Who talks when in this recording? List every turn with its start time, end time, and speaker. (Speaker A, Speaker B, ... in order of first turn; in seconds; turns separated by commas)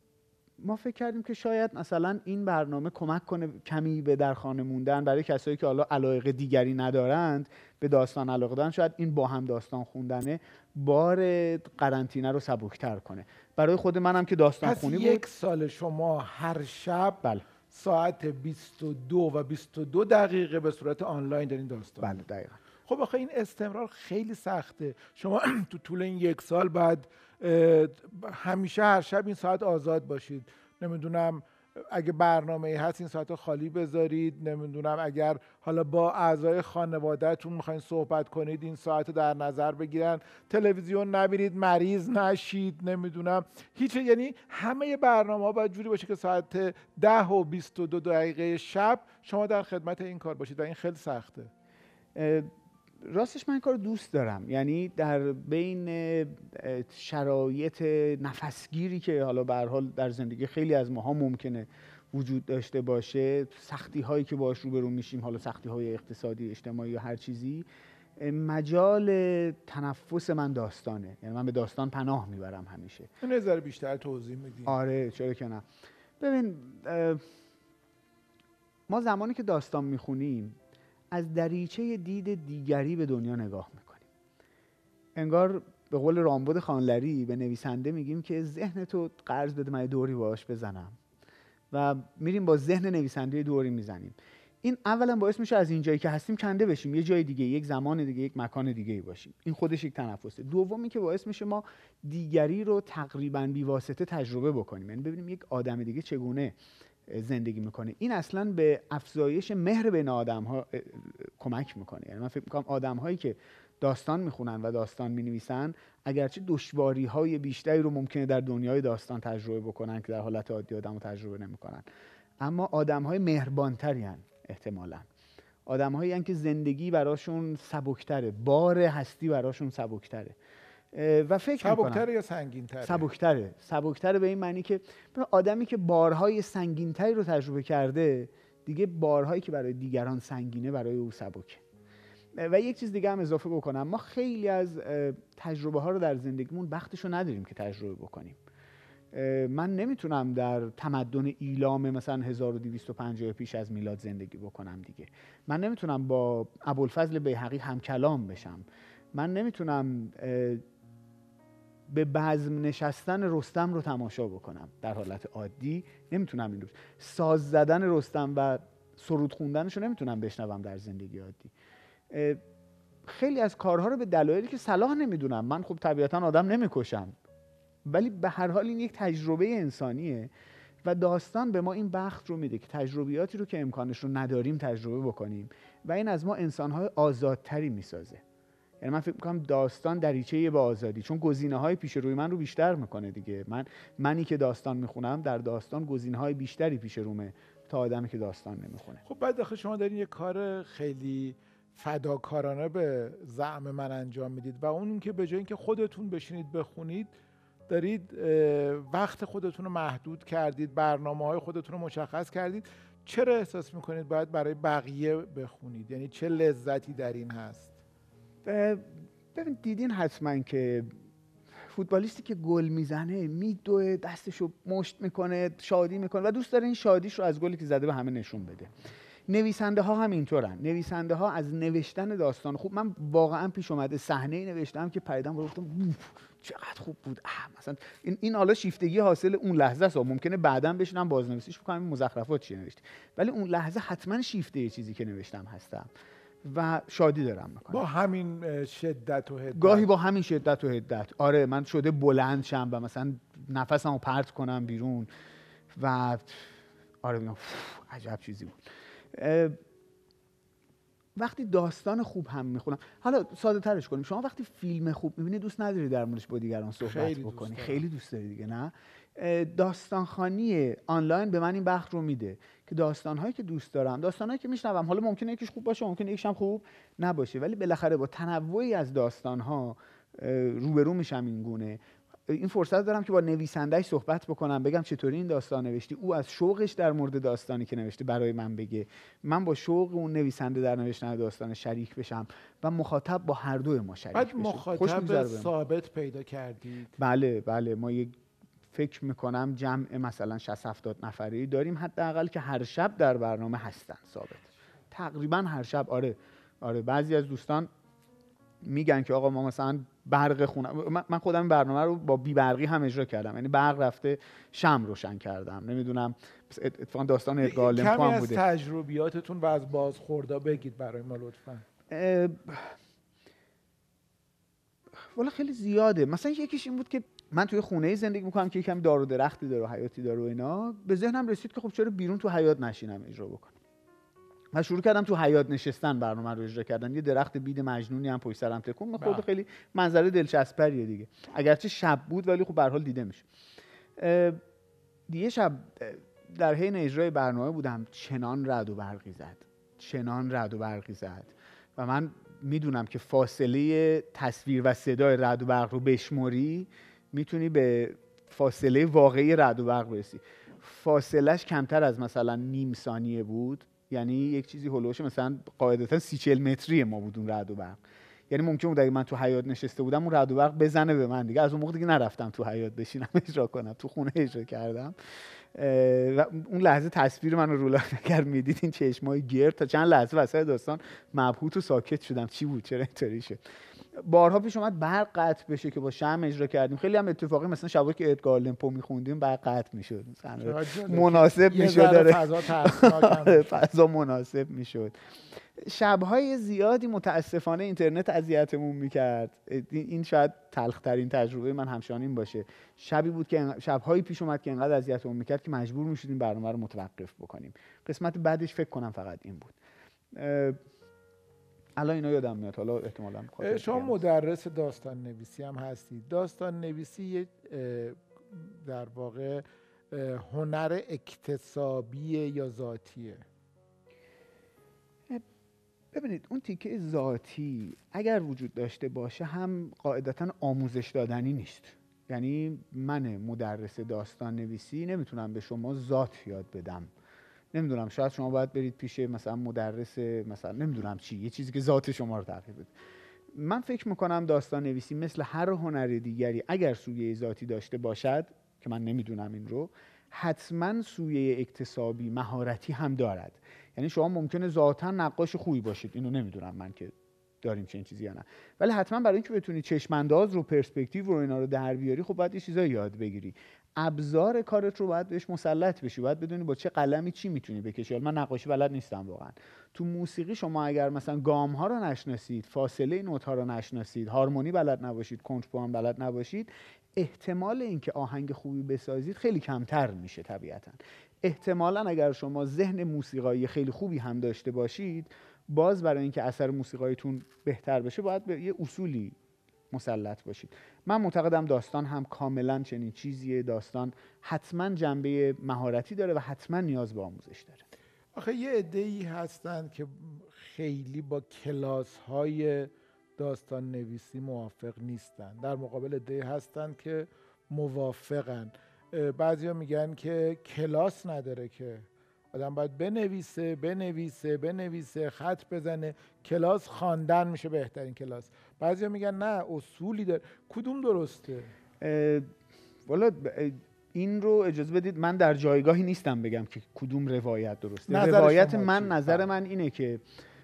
Speaker A: 0.6-15.2, Speaker B: 14.6-22.2, Speaker A: 22.0-22.6, Speaker B: 22.9-51.5, Speaker A: 52.1-52.5, Speaker A: 53.0-73.1, Speaker B: 73.2-74.7, Speaker A: 74.7-75.6, Speaker A: 76.2-77.2, Speaker A: 78.9-80.6, Speaker A: 81.1-84.1, Speaker A: 85.1-91.0, Speaker A: 91.7-106.5, Speaker A: 107.1-121.8, Speaker A: 122.4-125.1, Speaker A: 125.7-130.4, Speaker A: 130.9-132.0, Speaker B: 131.6-133.1, Speaker A: 132.8-141.6, Speaker A: 142.3-148.4, Speaker A: 149.1-160.6, Speaker A: 161.9-171.5, Speaker A: 172.1-172.4, Speaker A: 173.0-177.1, Speaker A: 177.8-180.3, Speaker A: 180.8-188.2, Speaker A: 188.8-199.0, Speaker B: 199.0-207.1, Speaker B: 207.7-217.7, Speaker A: 218.4-220.9, Speaker A: 221.7-228.7, Speaker A: 229.3-245.9, Speaker A: 246.4-247.8, Speaker B: 247.7-249.9, Speaker A: 249.5-255.1, Speaker A: 255.7-256.5, Speaker A: 257.0-258.6, Speaker A: 259.1-259.6, Speaker A: 261.1-295.5, Speaker B: 266.8-267.8, Speaker B: 294.1-296.9, Speaker A: 297.0-298.1, Speaker A: 298.7-307.7, Speaker A: 308.6-318.4, Speaker B: 317.4-321.6, Speaker A: 321.9-322.8, Speaker A: 325.0-333.5, Speaker A: 334.5-343.2, Speaker B: 339.0-339.2, Speaker A: 344.0-344.4, Speaker A: 345.1-374.9, Speaker A: 375.5-383.4, Speaker A: 383.9-394.9, Speaker B: 390.4-393.5, Speaker A: 395.6-409.5, Speaker A: 410.1-410.6, Speaker A: 411.8-414.0, Speaker B: 413.4-423.2, Speaker A: 425.9-436.9, Speaker A: 437.5-442.7, Speaker A: 443.3-489.1, Speaker A: 489.7-497.6, Speaker B: 498.1-521.5, Speaker A: 521.8-522.3, Speaker A: 522.9-530.0, Speaker B: 527.9-529.3